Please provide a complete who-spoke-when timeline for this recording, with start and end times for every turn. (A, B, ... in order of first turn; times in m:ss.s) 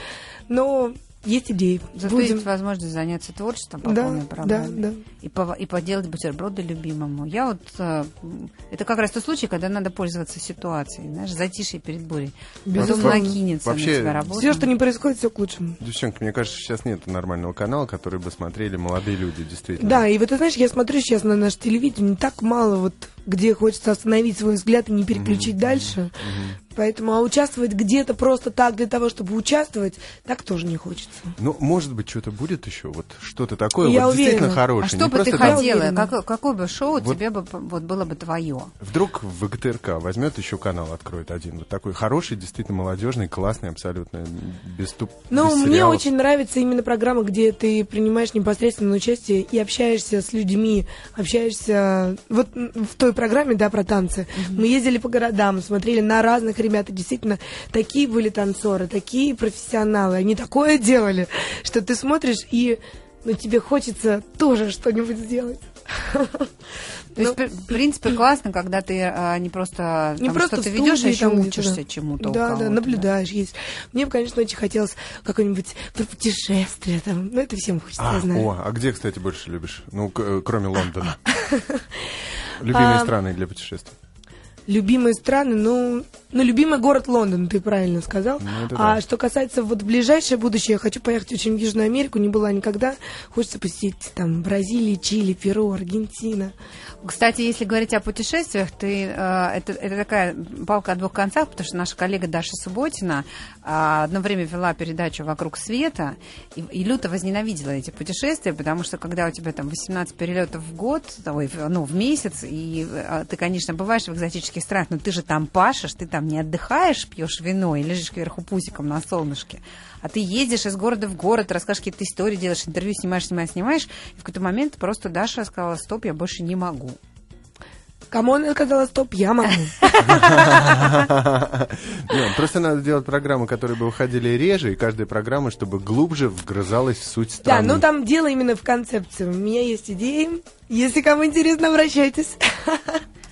0:00.5-0:02.5 A
0:02.0-0:14.7 B
0:03.8-0:05.0 A
0:12.7-0:13.4 A
0:12.8-0:14.3 C
0:14.3-0:15.8 A
0:15.8-0:20.0 C
0:19.8-0:26.2 A
0:25.1-0:26.6 C
0:26.7-0:31.4 A
0:31.4-0:35.6 C
0:33.8-0:36.1 A
0:34.8-0:38.7 B
0:38.8-0:46.0 C
0:45.3-1:06.5 A
0:54.4-0:54.6 B
1:07.2-1:13.1 B
1:10.2-1:18.5 A
1:18.0-1:21.2 C
1:21.4-1:21.9 A
1:22.6-1:24.0 C
1:22.7-1:23.1 A
1:24.7-1:36.5 A
1:28.4-1:29.0 C
1:37.0-2:07.0 B
2:08.1-2:10.3 A
2:09.8-2:10.2 B
2:10.0-2:17.8 C
2:17.4-2:23.0 A